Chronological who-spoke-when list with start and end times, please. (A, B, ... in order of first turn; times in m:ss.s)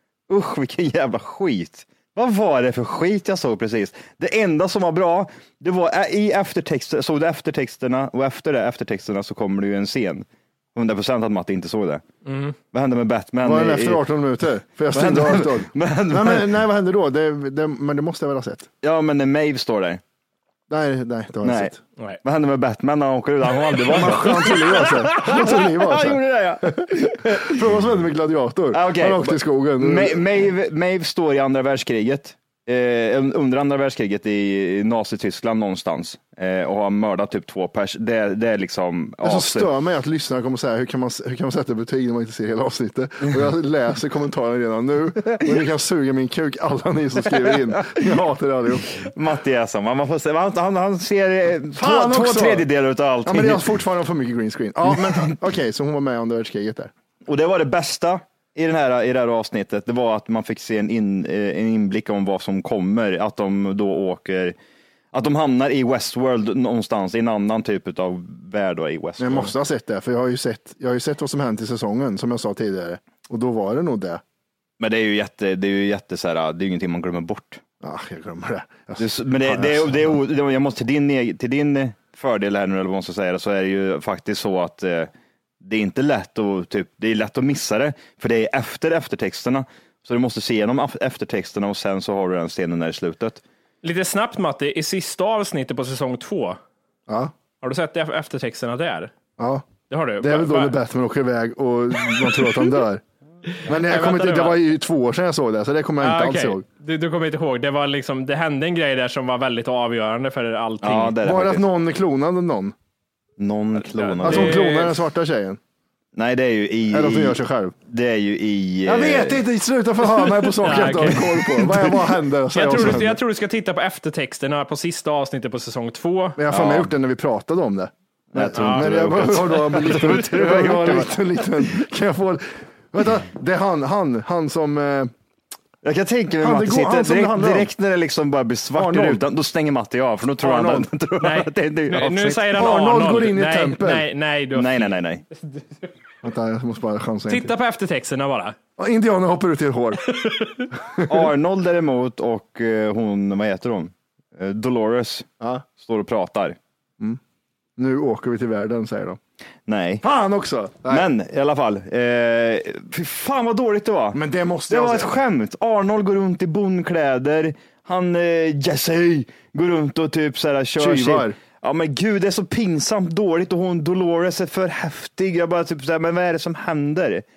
0:00.3-0:12.0 A
0:12.2-0:12.6 B
0:12.7-0:14.0 A
0:13.4-0:18.7 C
0:14.9-0:16.5 A
0:18.8-0:20.0 A
0:20.7-0:21.8 C
0:21.4-0:21.7 A
0:22.2-0:27.6 A
0:23.9-0:30.2 C
0:28.7-0:39.7 A
0:39.2-0:48.9 C
0:47.5-0:48.1 A
0:48.9-0:53.6 A
0:51.8-0:52.7 C
0:53.2-0:56.9 C
0:57.3-1:04.6 A
1:05.1-1:09.5 A
1:09.2-1:14.2 C
1:14.8-1:17.6 A
1:17.8-1:20.2 C
1:19.0-1:33.4 A
1:33.8-1:36.6 B
1:37.1-1:37.3 C
1:37.6-1:39.1 B
1:39.4-1:39.7 C
1:39.9-1:40.8 B
1:40.2-1:43.0 C
1:43.6-1:46.6 C
1:43.7-1:44.6 B
1:46.0-1:51.2 B
1:50.8-1:51.6 A
1:51.2-1:52.7 C
1:53.4-1:54.6 A
1:53.8-1:55.0 B
1:54.2-1:55.6 C
1:56.1-1:59.4 A
1:56.9-1:57.8 C
1:58.8-2:03.2 C
2:00.3-2:01.6 B
2:02.5-2:06.4 B
2:06.4-2:15.1 C
2:06.5-2:06.9 A
2:08.3-2:11.1 A
2:08.5-2:09.1 B
2:15.8-2:22.6 A
2:16.4-2:17.7 C
2:18.7-2:19.2 C
2:20.4-2:20.8 C
2:20.5-2:25.9 B
2:22.5-2:24.0 C
2:24.5-2:25.2 A
2:26.2-2:27.5 C
2:27.3-2:28.6 B
2:28.8-2:30.1 C
2:30.1-2:30.7 B
2:30.7-2:31.3 C
2:31.1-2:36.6 A
2:35.4-2:35.6 C
2:37.8-2:39.2 C
2:39.7-2:40.0 A
2:40.0-2:41.1 C
2:40.9-2:57.2 A
2:44.1-2:45.1 C
2:50.8-2:51.4 C